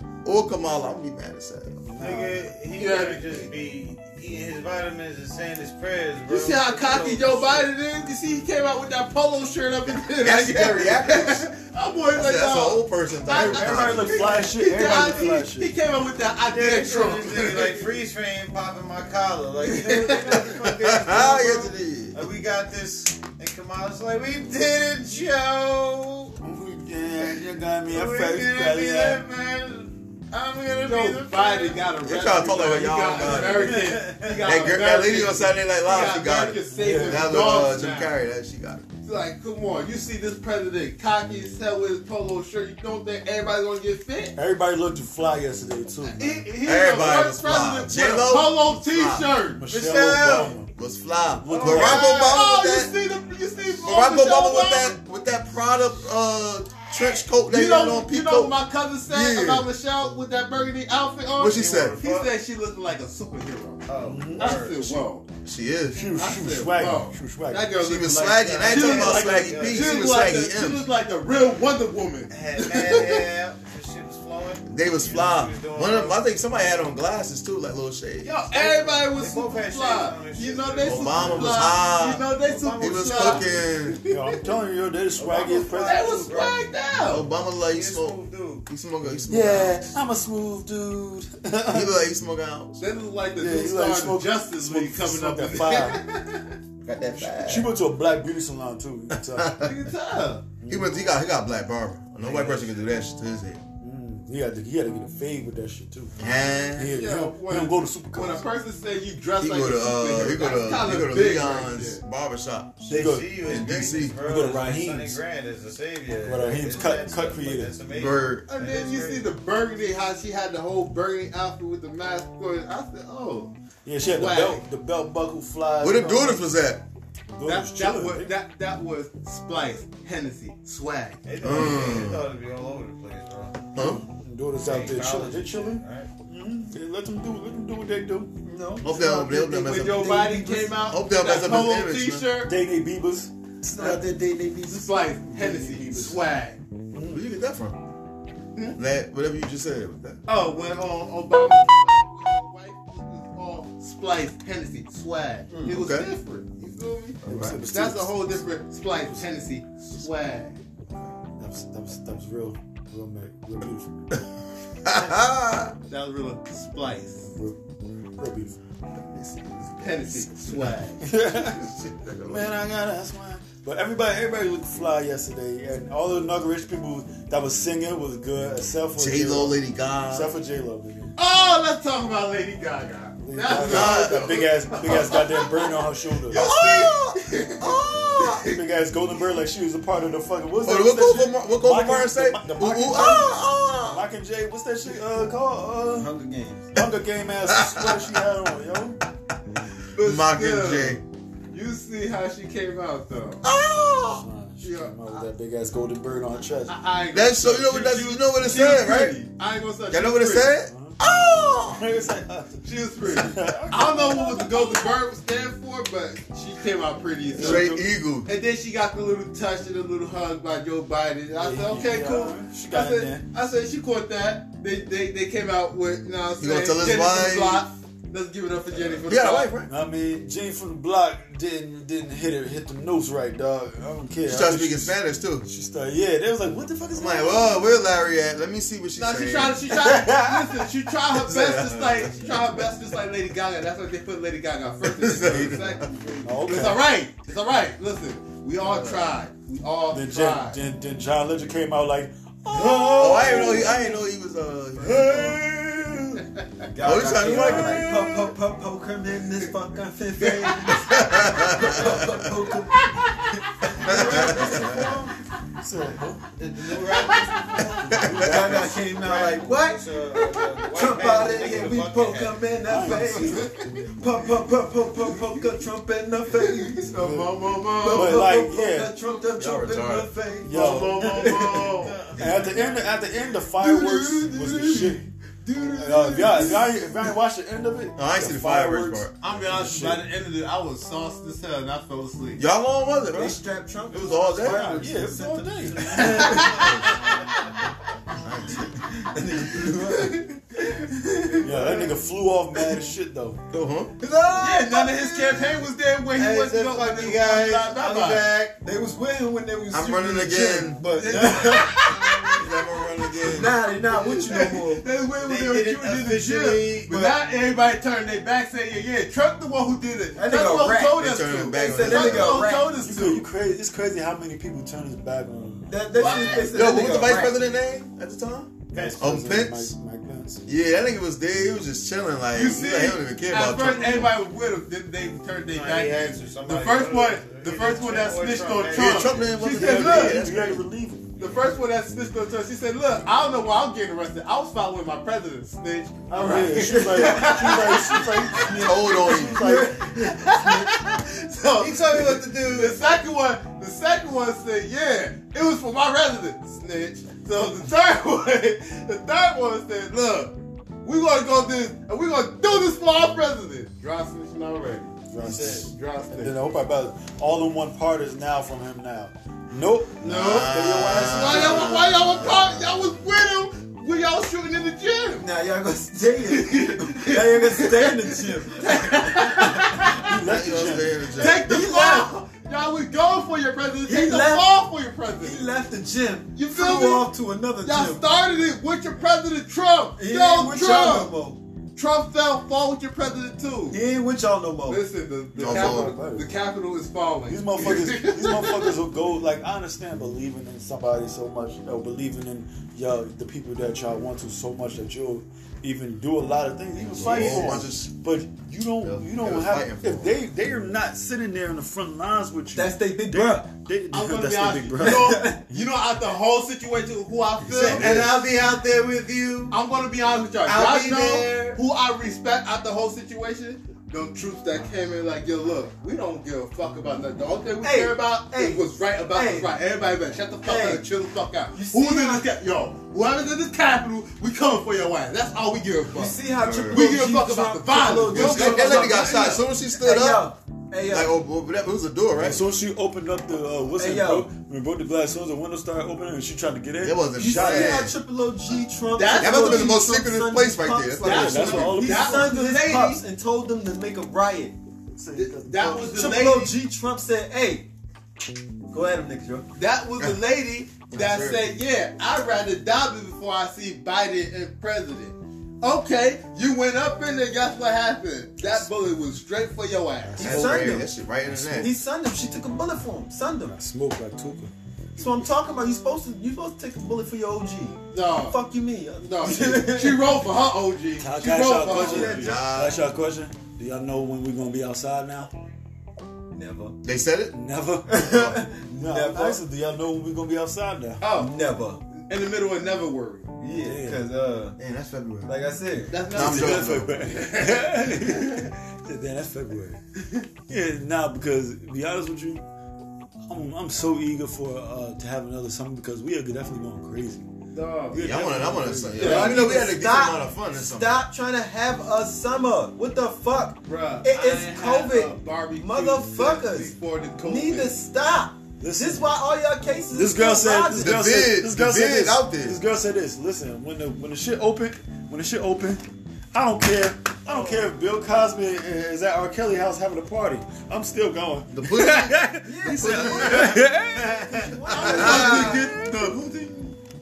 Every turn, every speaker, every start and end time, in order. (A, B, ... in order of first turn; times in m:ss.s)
0:00.2-0:01.8 A
0:01.8-0:02.4 B
0:02.0-0:07.7 C
0:02.8-0:03.5 D
0:06.3-0:17.9 D
0:10.1-0:11.5 A
0:12.1-0:14.4 A
0:13.3-0:15.7 B
0:16.5-0:26.3 C
0:19.6-0:20.4 D
0:20.6-0:22.2 A
0:26.4-0:29.2 B
0:27.9-0:31.9 C
0:30.8-0:38.1 D
0:32.0-0:38.8 A
0:33.1-0:34.5 C
0:33.6-0:34.3 B
0:35.9-0:36.2 C
0:36.7-0:37.5 B
0:39.0-0:44.4 D
0:44.3-0:46.4 B
0:46.1-0:49.7 D
0:46.6-0:52.9 A
0:49.6-0:50.7 B
0:51.4-0:52.1 B
0:51.5-0:55.0 D
0:53.8-0:59.7 A
0:57.4-1:05.2 D
1:01.4-1:02.0 A
1:01.6-1:02.3 C
1:03.9-1:05.0 C
1:04.0-1:04.6 B
1:05.4-1:06.1 A
1:05.9-1:07.8 B
1:06.2-1:13.2 D
1:07.8-1:10.8 A
1:08.6-1:10.1 C
1:09.0-1:09.4 B
1:12.3-1:16.8 C
1:14.7-1:18.4 A
1:18.2-1:24.4 D
1:18.5-1:21.8 C
1:20.8-1:22.3 A
1:22.4-1:23.6 C
1:22.8-1:24.0 A
1:24.1-1:26.3 B
1:25.2-1:26.6 C
1:25.8-1:27.3 D
1:27.1-1:30.0 A
1:27.5-1:28.6 C
1:29.3-1:31.9 B
1:31.7-1:32.8 A
1:32.8-1:36.6 D
1:33.4-1:36.0 B
1:36.8-1:37.7 A
1:37.2-1:39.5 B
1:39.1-1:39.7 A
1:39.6-1:40.4 D
1:40.6-1:41.0 B
1:40.7-1:43.6 A
1:42.2-1:42.8 C
1:43.8-1:46.2 B
1:46.2-1:46.9 A
1:46.7-1:48.4 B
1:46.9-1:52.0 D
1:49.4-1:54.2 A
1:52.9-1:53.3 B
1:52.9-1:59.3 C
1:54.2-1:55.2 B
1:56.2-1:57.7 B
1:57.9-1:58.4 A
1:58.5-2:03.5 D
2:03.8-2:06.4 B
2:04.0-2:04.6 D
2:05.8-2:06.8 A
2:07.3-2:08.3 B
2:07.4-2:11.2 D
2:11.2-2:13.7 C
2:11.4-2:12.3 A
2:13.7-2:14.0 A
2:13.8-2:18.3 B
2:14.6-2:16.1 C
2:18.4-2:20.7 E
2:18.8-2:20.3 A
2:18.9-2:22.5 D
2:20.8-2:22.3 A
2:22.4-2:24.1 B
2:23.6-2:24.9 E
2:24.7-2:26.6 D
2:25.3-2:26.2 B
2:26.9-2:27.2 B
2:27.1-2:27.8 A
2:28.8-2:30.2 A
2:30.3-2:40.6 D
2:35.6-2:36.1 A
2:37.2-2:37.6 A
2:37.2-2:38.4 B
2:39.0-2:39.2 B
2:41.4-2:43.9 B
2:44.8-2:45.7 A
2:45.9-2:47.3 D
2:47.2-2:47.6 B
2:48.2-2:48.6 B
2:49.0-2:50.8 A
2:49.8-2:51.0 D
2:51.0-2:51.7 B
2:51.3-2:52.5 A
2:52.2-3:01.2 B
2:59.0-3:00.3 A
3:01.2-3:05.7 D
3:03.2-3:06.4 B
3:03.5-3:04.4 A
3:06.3-3:08.6 D
3:06.3-3:08.5 A
3:08.5-3:16.1 B
3:10.6-3:14.0 A
3:15.9-3:16.8 E
3:16.7-3:19.0 B
3:17.5-3:18.0 A
3:19.9-3:23.4 D
3:20.0-3:21.0 A
3:23.4-3:24.2 A
3:24.2-3:26.7 B
3:24.6-3:25.2 D
3:26.7-3:30.5 D
3:27.1-3:29.2 A
3:29.9-3:31.8 A
3:30.7-3:31.0 B
3:31.7-3:34.7 B
3:32.6-3:49.5 D
3:37.3-3:37.8 B
3:37.4-3:38.3 A
3:41.4-3:43.3 B
3:46.4-3:47.6 A
3:48.8-3:49.7 A
3:49.6-3:57.6 B
3:54.2-3:55.5 A
3:56.9-3:59.7 A
3:59.0-4:10.6 D
3:59.7-4:00.7 B
4:01.1-4:02.4 A
4:04.8-4:05.9 A
4:06.2-4:06.9 B
4:09.9-4:13.7 B
4:12.6-4:13.6 D
4:12.6-4:13.9 E
4:13.0-4:15.9 A
4:16.7-4:25.0 E
4:16.8-4:18.3 A
4:17.1-4:18.0 B
4:20.2-4:20.7 D
4:20.7-4:22.2 A
4:23.8-4:24.9 A
4:23.8-4:25.0 B
4:25.6-4:26.3 B
4:26.4-4:28.1 C
4:26.8-4:27.2 D
4:27.9-4:28.6 A
4:28.0-4:28.9 B
4:28.1-4:29.9 E
4:28.9-4:32.4 C
4:30.7-4:42.6 E
4:32.6-4:33.5 B
4:36.5-4:38.2 D
4:37.9-4:39.0 B
4:39.3-4:40.1 A
4:40.4-4:41.3 B
4:40.5-4:42.0 D
4:41.7-4:42.9 C
4:42.1-4:45.0 B
4:43.6-4:46.8 E
4:45.8-4:50.0 B
4:48.0-4:49.2 A
4:49.2-4:52.4 D
4:52.4-4:54.8 A
4:53.1-4:57.2 E
4:54.4-4:56.4 B
4:55.9-4:57.0 D
4:56.3-4:57.2 C
4:56.4-4:56.9 A
4:58.2-4:58.8 A
4:58.5-5:01.9 E
5:01.4-5:03.4 B
5:03.5-5:04.0 A
5:04.0-5:05.7 E
5:04.4-5:08.3 D
5:06.1-5:08.5 C
5:08.5-5:12.4 E
5:09.7-5:10.8 A
5:10.9-5:12.3 D
5:12.3-5:13.6 A
5:13.2-5:14.8 E
5:13.4-5:23.2 D
5:15.2-5:17.1 C
5:20.2-5:22.7 E
5:21.0-5:22.5 A
5:22.8-5:26.0 B
5:25.7-5:27.4 E
5:26.0-5:26.6 D
5:26.1-5:29.7 A
5:28.7-5:29.0 C
5:28.7-5:30.4 B
5:30.4-5:34.2 A
5:32.3-5:40.2 D
5:35.5-5:39.3 C
5:38.7-5:40.6 A
5:39.4-5:41.5 B
5:41.2-5:48.7 D
5:46.1-5:49.8 B
5:46.3-5:47.8 E
5:48.4-5:50.7 E
5:48.6-5:49.6 A
5:49.5-6:06.4 D
5:51.6-5:52.9 C
6:05.1-6:11.8 B
6:10.0-6:12.7 A
6:10.9-6:15.3 D
6:15.2-6:20.0 E
6:16.2-6:20.1 D
6:19.9-6:21.0 B
6:20.1-6:21.4 A
6:21.1-6:25.5 D
6:21.2-6:22.1 E
6:23.8-6:24.5 E
6:25.2-6:28.0 E
6:26.4-6:31.1 D
6:30.0-6:31.4 E
6:31.8-6:33.8 D
6:33.7-6:34.8 E
6:34.6-6:38.7 D
6:35.4-6:36.3 B
6:35.4-6:36.0 A
6:37.3-6:55.6 B
6:46.9-6:47.9 A
6:47.2-6:47.5 D
6:48.8-6:50.2 A
6:52.5-6:53.5 E
6:53.9-6:58.2 D
6:54.8-6:55.4 E
6:57.4-6:58.1 B
6:57.5-6:59.5 C
6:59.5-7:16.2 D
7:00.4-7:01.6 C
7:07.6-7:09.5 E
7:10.4-7:10.8 E
7:11.5-7:12.3 E
7:15.9-7:21.1 E
7:16.4-7:16.9 A
7:16.7-7:19.4 D
7:18.1-7:20.3 A
7:20.9-7:22.4 A
7:22.2-7:27.9 B
7:23.8-7:24.3 E
7:26.8-7:27.9 A
7:27.1-7:34.5 E
7:28.9-7:29.8 D
7:29.1-7:31.8 A
7:31.0-7:33.0 D
7:31.0-7:32.4 B
7:35.0-7:35.9 B
7:35.1-7:36.5 D
7:35.6-7:37.7 E
7:38.7-7:39.4 E
7:39.5-7:50.3 D
7:40.9-7:41.5 A
7:50.0-7:51.8 B
7:50.2-7:50.9 E
7:50.2-7:51.7 A
7:51.5-7:53.6 E
7:53.5-7:54.5 B
7:55.0-8:00.1 E
7:57.9-7:58.4 D
7:59.0-8:02.4 D
8:01.0-8:05.3 B
8:01.6-8:02.4 E
8:01.9-8:02.8 A
8:06.3-8:06.8 E
8:06.8-8:07.4 A
8:07.3-8:11.0 B
8:07.9-8:09.4 E
8:11.0-8:11.4 D
8:11.1-8:11.8 E
8:12.0-8:13.3 D
8:13.4-8:14.6 E
8:13.5-8:14.1 B
8:14.6-8:15.3 A
8:15.3-8:16.1 E
8:15.9-8:18.1 D
8:16.1-8:16.9 A
8:16.1-8:19.8 B
8:20.5-8:22.4 B
8:23.2-8:27.3 B
8:27.5-8:28.1 D
8:27.9-8:29.4 B
8:27.9-8:31.0 A
8:28.9-8:29.4 D
8:29.0-8:41.0 E
8:33.6-8:37.7 D
8:38.6-8:39.2 B
8:39.9-8:55.4 B
8:40.8-8:42.6 A
8:47.2-8:47.7 C
8:51.5-8:53.7 A
8:52.4-8:55.8 E
8:54.3-8:55.6 A
8:54.7-8:56.8 D